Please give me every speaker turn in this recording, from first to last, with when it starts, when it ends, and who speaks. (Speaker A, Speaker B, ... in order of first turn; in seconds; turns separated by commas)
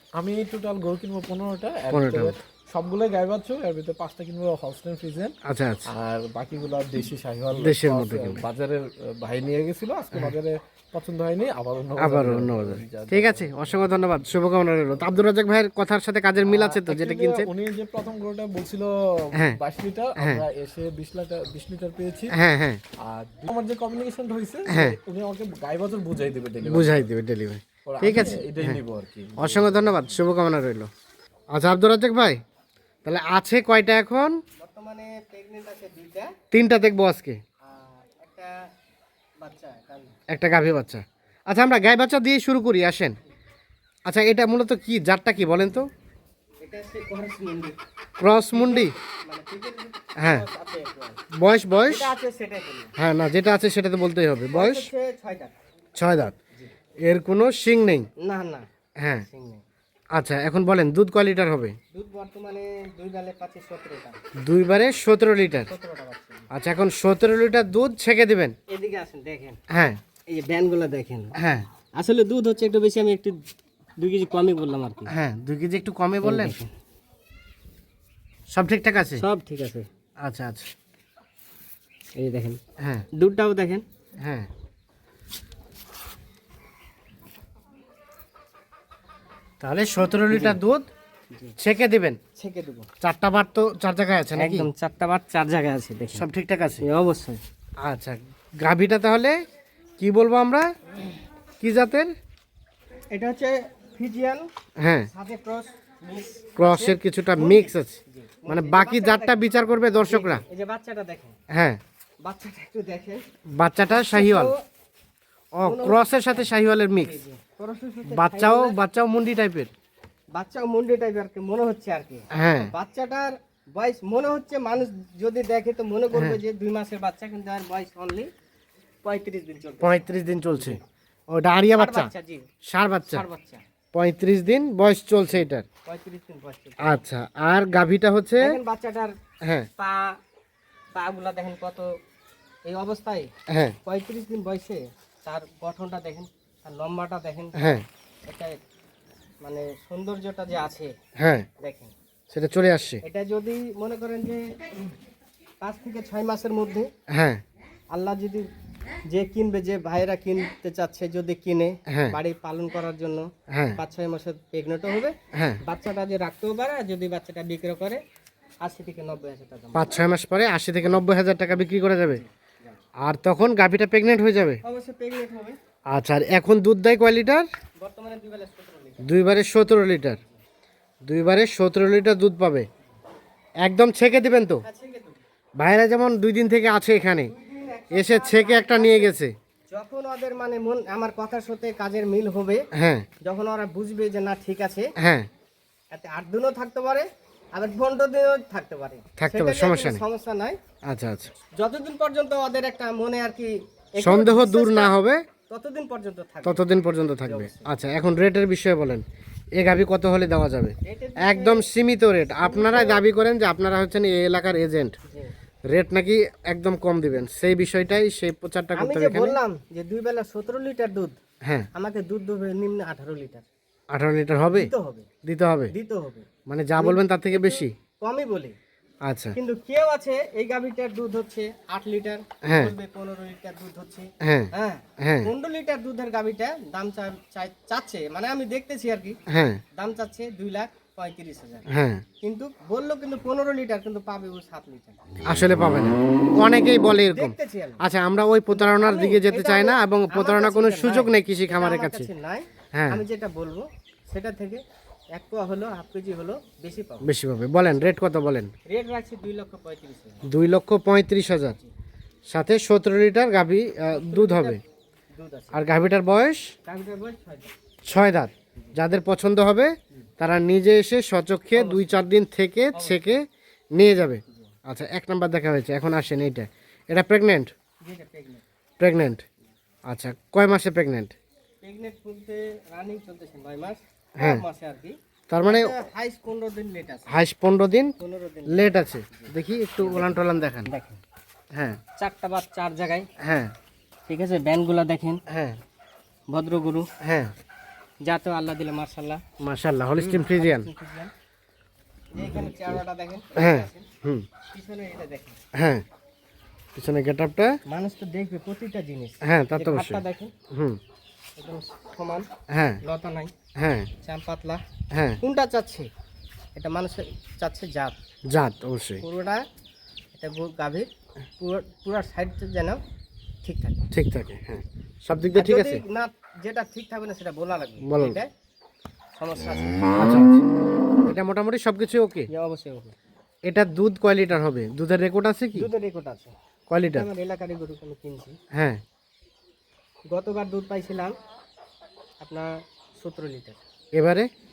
Speaker A: 0.2-5.3, Speaker B: 1.9-2.4, Speaker B: 5.4-5.9, Speaker A: 5.9-14.0, Speaker B: 7.5-8.4, Speaker B: 12.0-17.5, Speaker A: 16.4-22.4, Speaker B: 20.2-20.4, Speaker B: 22.3-22.8, Speaker A: 23.0-27.1, Speaker B: 24.7-25.0, Speaker B: 26.6-28.8, Speaker A: 27.9-30.2, Speaker B: 29.4-30.9, Speaker B: 31.5-32.4, Speaker B: 33.0-34.4, Speaker C: 34.6-36.4, Speaker B: 36.5-37.4, Speaker C: 37.6-38.5, Speaker C: 39.4-40.2, Speaker B: 40.3-43.1, Speaker B: 44.1-45.9, Speaker C: 46.6-47.8, Speaker B: 48.2-48.9, Speaker C: 48.5-51.2, Speaker B: 50.2-50.5, Speaker B: 51.3-52.1, Speaker C: 51.9-52.9, Speaker B: 53.0-54.9, Speaker C: 54.5-55.5, Speaker B: 56.0-56.4, Speaker B: 57.0-58.1, Speaker C: 58.2-58.7, Speaker B: 59.0-59.3, Speaker C: 59.3-59.6, Speaker B: 60.1-61.8, Speaker C: 61.9-64.2, Speaker B: 64.4-65.7, Speaker C: 65.7-66.5, Speaker B: 66.5-68.6, Speaker C: 68.7-69.6, Speaker B: 69.7-70.0, Speaker C: 70.3-71.3, Speaker B: 71.4-71.7, Speaker C: 72.0-73.4, Speaker C: 74.0-75.1, Speaker B: 75.1-76.6, Speaker C: 76.2-76.7, Speaker B: 78.5-79.2, Speaker C: 79.2-79.9, Speaker B: 80.2-80.7, Speaker C: 82.2-82.6, Speaker B: 82.8-83.1, Speaker C: 83.1-83.8, Speaker B: 84.2-84.5, Speaker B: 89.6-90.9, Speaker C: 90.3-90.6, Speaker B: 91.6-92.2, Speaker C: 92.3-92.9, Speaker B: 93.0-94.7, Speaker C: 94.4-96.3, Speaker B: 96.1-96.8, Speaker C: 96.8-97.4, Speaker B: 97.8-99.4, Speaker B: 100.0-100.7, Speaker B: 101.6-102.1, Speaker C: 103.1-104.5, Speaker B: 104.8-105.1, Speaker C: 105.1-109.4, Speaker B: 106.6-110.4, Speaker C: 110.0-111.4, Speaker B: 111.5-111.8, Speaker C: 112.2-113.2, Speaker B: 113.5-114.5, Speaker C: 113.9-114.6, Speaker B: 115.6-117.2, Speaker C: 115.6-116.4, Speaker C: 117.0-118.8, Speaker B: 118.1-119.7, Speaker C: 120.3-128.3, Speaker B: 122.3-122.7, Speaker B: 126.1-126.4, Speaker C: 129.0-130.8, Speaker B: 129.8-132.1, Speaker C: 131.8-132.5, Speaker B: 132.7-133.3, Speaker C: 133.1-133.6, Speaker B: 133.9-135.7, Speaker C: 135.8-137.0, Speaker B: 136.8-138.6, Speaker C: 138.4-139.1, Speaker B: 139.4-139.7, Speaker C: 139.8-140.2, Speaker C: 140.9-141.9, Speaker C: 142.7-143.3, Speaker B: 143.5-143.8, Speaker C: 143.8-147.7, Speaker B: 147.6-147.8, Speaker C: 148.2-148.6, Speaker C: 149.4-150.9, Speaker B: 151.2-151.5, Speaker C: 151.6-151.9, Speaker B: 152.3-153.0, Speaker C: 153.0-154.5, Speaker C: 155.6-156.9, Speaker B: 157.1-157.4, Speaker C: 157.9-158.5, Speaker C: 159.1-168.0, Speaker B: 161.9-162.2, Speaker B: 163.5-163.8, Speaker B: 165.3-165.6, Speaker C: 168.6-170.0, Speaker B: 169.8-172.2, Speaker C: 172.1-172.8, Speaker B: 173.0-174.6, Speaker C: 174.6-175.6, Speaker B: 175.9-177.5, Speaker C: 177.8-179.0, Speaker B: 179.0-180.2, Speaker B: 181.0-182.7, Speaker B: 183.6-184.6, Speaker C: 184.7-185.2, Speaker B: 185.6-187.3, Speaker C: 187.2-189.2, Speaker B: 187.9-189.3, Speaker C: 189.7-192.6, Speaker B: 192.7-193.1, Speaker C: 193.2-194.9, Speaker B: 195.0-195.3, Speaker C: 195.9-200.6, Speaker B: 199.2-200.0, Speaker B: 200.8-201.3, Speaker C: 201.6-204.9, Speaker B: 204.0-205.2, Speaker C: 205.5-206.7, Speaker B: 206.4-215.0, Speaker C: 207.2-207.7, Speaker C: 210.8-211.7, Speaker C: 212.4-213.0, Speaker C: 215.1-215.3, Speaker B: 215.7-219.4, Speaker C: 218.8-221.2, Speaker C: 221.7-223.4, Speaker B: 223.9-224.7, Speaker C: 224.5-225.1, Speaker B: 225.2-225.7, Speaker C: 225.7-228.6, Speaker B: 226.5-227.7, Speaker B: 229.0-229.4, Speaker C: 229.3-239.2, Speaker B: 232.4-232.8, Speaker B: 234.2-235.3, Speaker B: 239.3-239.6, Speaker C: 239.8-241.7, Speaker B: 241.7-242.0, Speaker C: 242.2-245.0, Speaker B: 245.3-252.1, Speaker C: 247.1-247.8, Speaker C: 248.5-254.6, Speaker B: 252.7-253.0, Speaker C: 255.1-257.1, Speaker B: 257.0-258.5, Speaker C: 258.7-260.2, Speaker B: 260.3-261.6, Speaker B: 262.3-264.6, Speaker C: 264.1-264.6, Speaker C: 265.1-265.6, Speaker B: 265.5-266.5, Speaker C: 266.6-267.5, Speaker B: 267.9-273.2, Speaker C: 271.5-272.0, Speaker B: 273.7-277.5, Speaker C: 277.8-278.4, Speaker B: 278.8-279.2, Speaker B: 279.9-281.1, Speaker C: 281.6-287.1, Speaker B: 284.2-284.4, Speaker B: 285.3-285.7, Speaker B: 287.1-287.9, Speaker C: 288.0-290.1, Speaker B: 288.5-290.7, Speaker C: 290.7-291.0, Speaker B: 291.5-291.8, Speaker C: 292.0-293.1, Speaker B: 293.2-293.5, Speaker C: 294.1-295.2, Speaker B: 295.3-295.6, Speaker C: 296.3-296.9, Speaker B: 297.0-297.3, Speaker C: 298.0-299.2, Speaker B: 299.4-300.7, Speaker C: 300.0-301.1, Speaker C: 302.1-303.9, Speaker B: 303.4-304.3, Speaker C: 304.5-305.4, Speaker B: 305.5-305.9, Speaker B: 306.8-307.6, Speaker C: 307.7-310.3, Speaker B: 309.2-310.8, Speaker C: 311.4-312.3, Speaker B: 312.5-312.8, Speaker C: 312.8-313.3, Speaker B: 313.6-313.9, Speaker C: 314.0-314.6, Speaker B: 314.9-315.2, Speaker C: 315.2-315.9, Speaker C: 316.6-318.0, Speaker B: 318.3-319.0, Speaker C: 319.0-319.4, Speaker C: 320.1-320.9, Speaker C: 321.4-322.8, Speaker C: 323.4-323.9, Speaker B: 323.9-325.8, Speaker C: 325.3-328.3, Speaker B: 327.8-328.2, Speaker C: 329.2-329.9, Speaker B: 330.0-330.4, Speaker B: 331.1-332.3, Speaker C: 332.3-332.9, Speaker B: 333.4-335.7, Speaker C: 335.6-336.3, Speaker B: 336.7-337.1, Speaker C: 336.9-338.4, Speaker B: 338.5-338.8, Speaker C: 340.1-341.1, Speaker C: 342.2-343.6, Speaker B: 343.9-344.3